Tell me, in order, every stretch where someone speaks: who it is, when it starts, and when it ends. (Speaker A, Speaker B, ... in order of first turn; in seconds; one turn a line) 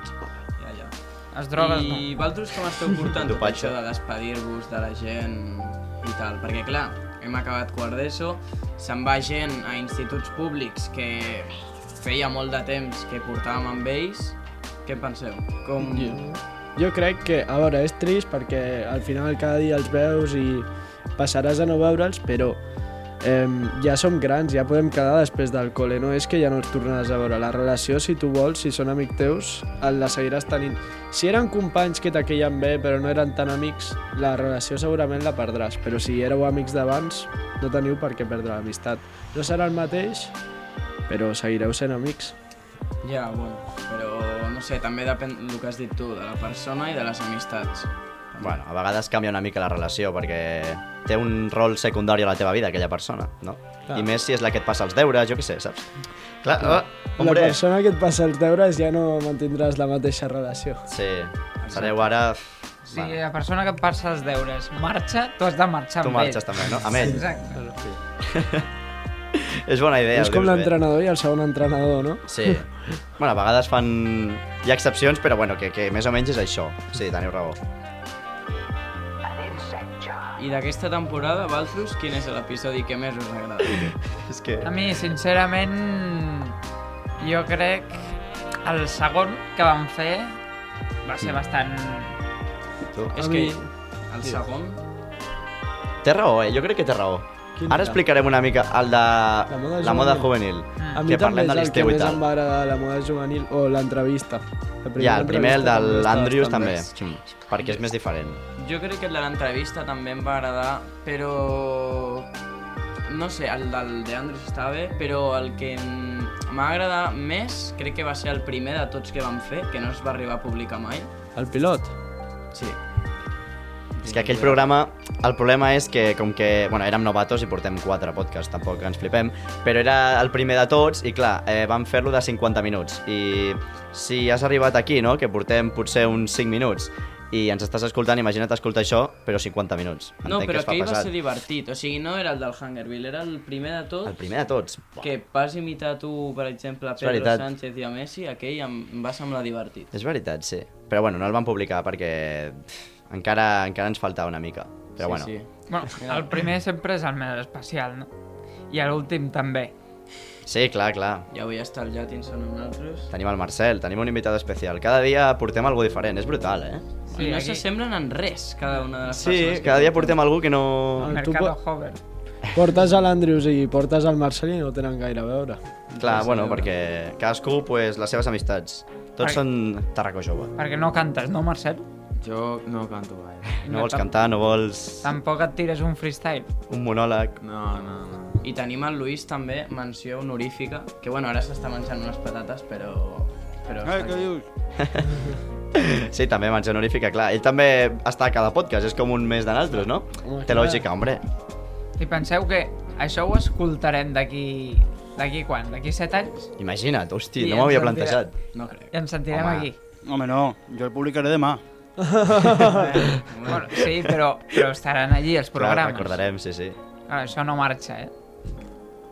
Speaker A: 0.6-0.9
Speaker B: 1.3-2.1
Speaker A: 1.6-16.2
Speaker C: 3.1-3.7
Speaker D: 15.8-22.6
Speaker D: 23.2-40.3
Speaker D: 41.1-42.4
Speaker A: 43.0-47.9
Speaker C: 48.4-57.6
Speaker D: 56.7-60.8
Speaker C: 60.9-63.2
Speaker A: 61.6-62.0
Speaker B: 62.9-67.6
Speaker C: 66.0-67.2
Speaker C: 68.2-68.7
Speaker C: 69.3-70.7
Speaker D: 70.2-72.6
Speaker C: 72.3-72.7
Speaker C: 73.2-77.6
Speaker A: 80.4-84.0
Speaker C: 83.8-84.7
Speaker B: 84.6-86.5
Speaker B: 87.2-90.4
Speaker B: 91.0-92.2
Speaker A: 93.1-94.8
Speaker D: 93.2-93.7
Speaker C: 96.0-102.2
Speaker D: 97.6-98.0
Speaker D: 99.5-100.3
Speaker D: 101.0-106.8
Speaker C: 105.0-108.4
Speaker A: 108.6-112.3
Speaker A: 113.0-121.1
Speaker D: 121.4-121.9
Speaker C: 124.0-141.1
Speaker A: 124.1-124.4
Speaker A: 140.2-144.2
Speaker C: 144.1-145.1
Speaker A: 145.0-149.9
Speaker C: 147.0-147.4
Speaker C: 149.9-155.3
Speaker A: 155.0-156.3
Speaker B: 155.7-158.1
Speaker B: 158.7-159.7
Speaker C: 160.4-161.3
Speaker A: 161.3-163.1
Speaker C: 163.1-166.9
Speaker B: 167.1-167.6
Speaker A: 167.1-170.2
Speaker C: 169.1-171.2
Speaker B: 171.0-172.0
Speaker D: 171.0-171.6
Speaker D: 172.5-175.6
Speaker C: 176.0-180.5
Speaker A: 176.1-176.6
Speaker B: 180.6-181.9
Speaker E: 182.2-183.6
Speaker C: 183.6-185.1
Speaker B: 183.6-184.2
Speaker B: 185.0-186.5
Speaker C: 186.7-187.4
Speaker E: 187.4-188.4
Speaker A: 188.4-194.2
Speaker F: 193.8-194.5
Speaker C: 194.8-195.1
Speaker C: 195.7-201.2
Speaker D: 200.2-200.8
Speaker B: 202.0-206.5
Speaker C: 206.6-208.3
Speaker B: 207.4-208.2
Speaker A: 208.5-208.9
Speaker B: 208.9-209.8
Speaker C: 209.3-209.7
Speaker F: 210.1-211.6
Speaker D: 212.0-213.0
Speaker A: 212.7-213.7
Speaker B: 213.5-216.2
Speaker C: 215.6-216.8
Speaker B: 217.1-218.1